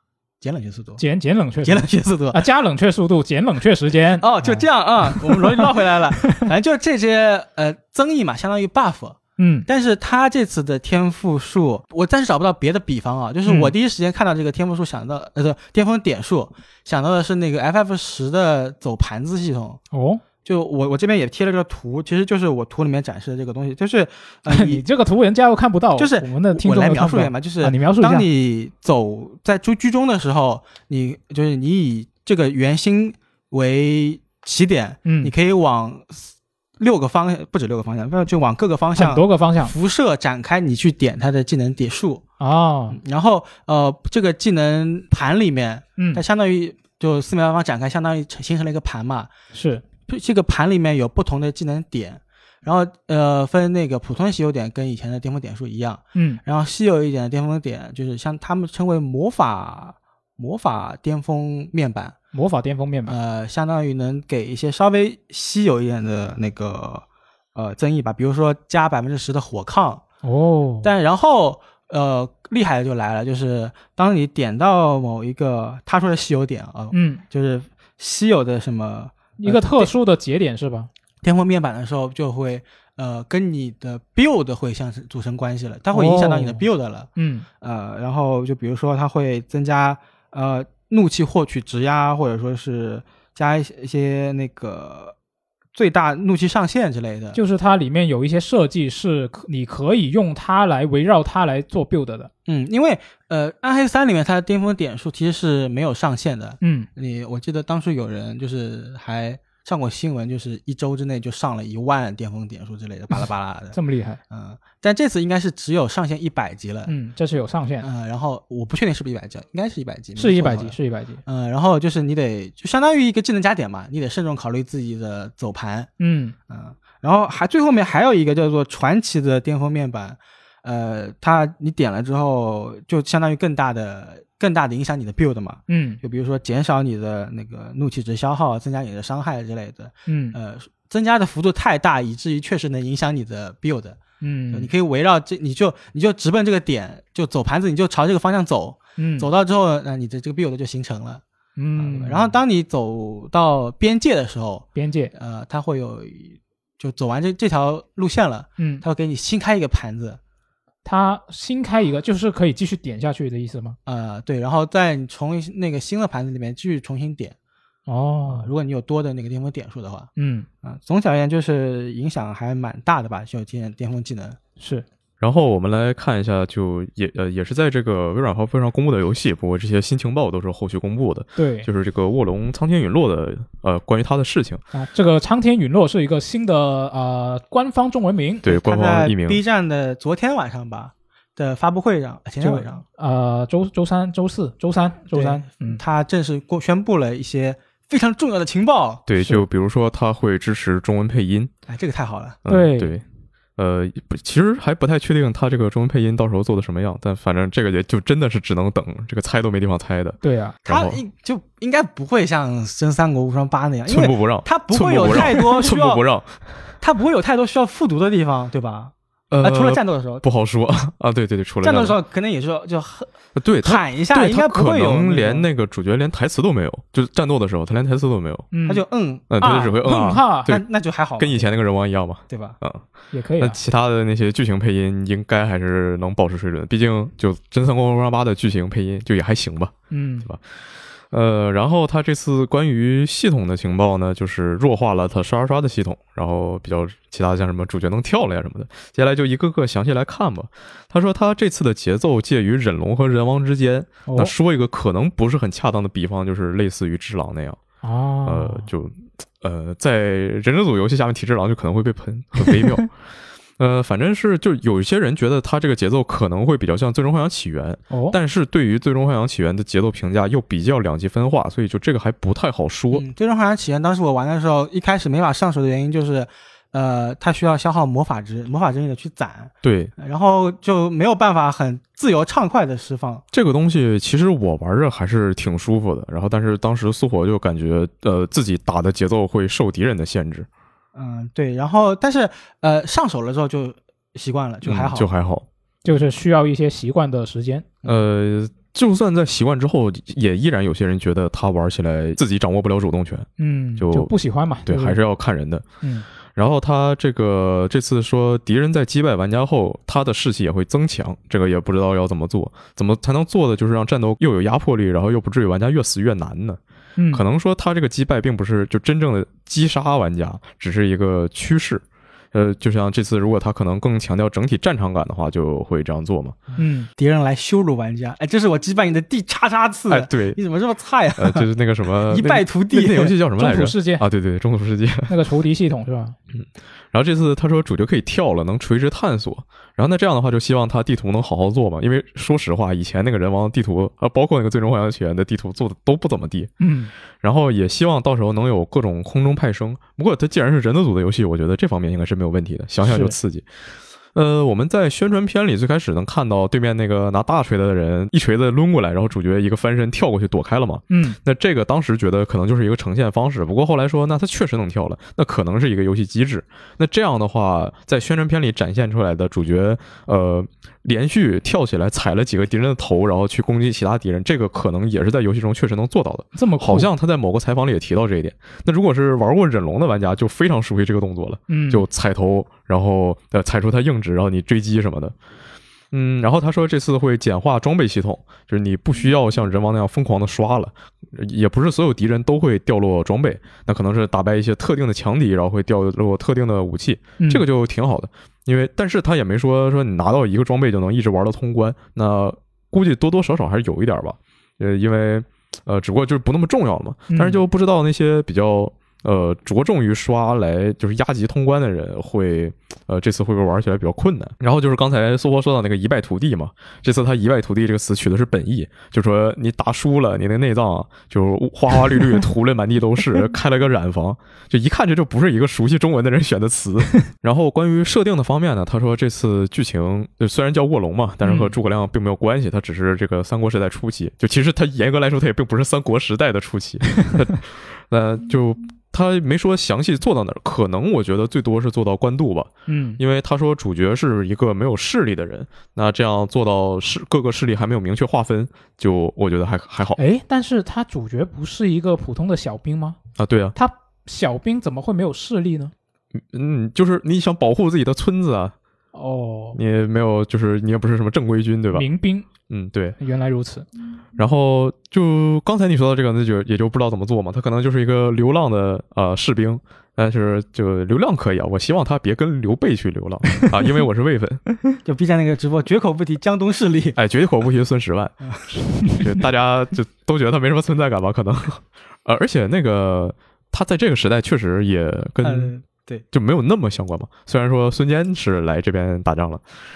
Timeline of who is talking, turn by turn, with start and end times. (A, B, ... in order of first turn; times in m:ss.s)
0:00.4-0:01.0 A
0:01.0-0:05.7 B
0:01.6-0:02.4 A
0:04.2-0:19.8 A
0:06.2-0:06.5 B
0:09.4-0:09.7 B
0:13.5-0:13.7 B
0:19.9-0:20.2 B
0:20.4-0:24.8 A
0:24.5-0:28.3 B
0:26.0-0:42.2 A
0:35.1-0:35.3 B
0:39.0-0:39.7 B
0:42.4-0:43.0 B
0:42.9-0:49.3 A
0:49.5-0:49.8 B
0:50.1-1:02.2 A
0:56.2-0:56.4 B
1:02.3-1:03.2 B
1:03.1-1:10.0 A
1:10.2-1:10.9 B
1:10.8-1:19.9 A
1:16.9-1:17.2 B
1:19.4-1:20.9 B
1:21.2-1:27.1 A
1:25.9-1:26.7 B
1:27.2-1:27.5 B
1:27.6-1:35.2 A
1:35.7-1:37.4 A
1:37.3-1:42.3 B
1:42.5-1:53.8 A
1:46.6-1:46.9 B
1:53.7-1:54.2 B
1:54.3-1:56.9 A
1:56.9-1:57.9 B
1:57.8-2:05.9 A
2:00.2-2:01.2 B
2:06.0-2:06.4 B
2:06.5-2:24.0 A
2:15.7-2:16.0 B
2:20.1-2:20.4 B
2:24.2-2:24.7 B
2:24.5-2:31.2 A
2:29.0-2:29.3 B
2:31.6-2:32.4 B
2:31.8-2:40.2 A
2:34.8-2:35.1 B
2:38.6-2:38.8 B
2:40.8-2:43.8 B
2:43.9-2:47.4 A
2:47.9-2:48.5 B
2:48.3-2:50.1 A
2:50.2-2:50.5 B
2:50.6-2:54.4 A
2:54.6-2:54.9 B
2:55.2-3:04.6 C
3:01.4-3:01.7 B
3:04.7-3:08.5 B
3:08.4-3:09.4 C
3:08.4-3:12.8 A
3:12.4-3:15.8 B
3:15.1-3:19.1 A
3:19.1-3:21.5 C
3:21.7-3:22.4 A
3:22.4-3:23.0 C
3:22.5-3:23.0 B
3:23.6-3:31.0 C
3:30.2-3:30.6 B
3:30.7-3:36.0 A
3:33.9-3:36.5 C
3:36.8-3:40.2 A
3:39.3-3:42.0 C
3:41.6-3:43.1 A
3:43.4-3:48.5 C
3:43.6-3:45.5 A
3:48.5-3:48.8 B
3:48.7-3:49.8 A
3:49.3-3:50.6 C
3:49.4-3:50.5 B
3:50.5-3:51.5 A
3:51.2-3:52.8 C
3:52.3-3:52.6 A
3:53.1-3:53.6 B
3:53.4-3:59.7 C
3:59.9-4:00.3 B
4:00.3-4:00.5 C
4:01.1-4:17.6 C
4:14.1-4:14.3 B
4:17.8-4:18.7 B
4:18.3-4:23.0 C
4:23.6-4:33.0 C
4:27.9-4:28.2 B
4:32.9-4:43.2 A
4:39.6-4:39.9 C
4:43.3-4:50.5 C
4:51.0-4:55.1 A
4:54.6-4:55.5 C
4:55.8-4:57.7 B
4:57.9-5:04.1 C
5:03.4-5:05.0 B
5:04.7-5:05.6 C
5:05.8-5:06.1 B
5:06.4-5:16.6 C
5:17.0-5:17.2 B
5:17.1-5:26.4 C
5:26.5-5:31.5 A
5:26.6-5:26.9 B
5:29.9-5:30.4 C
5:31.2-5:35.1 C
5:32.1-5:33.2 A
5:33.4-5:34.0 B
5:35.1-5:36.2 B
5:36.4-5:46.5 C
5:46.6-5:46.9 B
5:47.2-5:53.5 C
5:52.8-5:53.2 B
5:54.1-6:25.2 C
6:00.9-6:01.2 B
6:16.4-6:16.9 B
6:21.5-6:21.9 B
6:25.9-7:30.0 C
6:37.2-6:37.4 B
6:47.1-6:47.4 B
7:11.2-7:11.6 B
7:22.7-7:23.0 B
7:30.0-7:33.0 B
7:33.2-7:33.6 C
7:33.6-7:35.7 B
7:36.2-7:38.5 C
7:38.9-7:39.6 B
7:39.6-7:41.9 C
7:41.7-7:42.3 B
7:42.5-7:43.0 C
7:43.0-7:43.7 B
7:44.2-7:54.6 C
7:54.8-7:57.0 A
7:57.0-8:05.5 C
8:05.2-8:06.0 A
8:06.1-8:09.4 C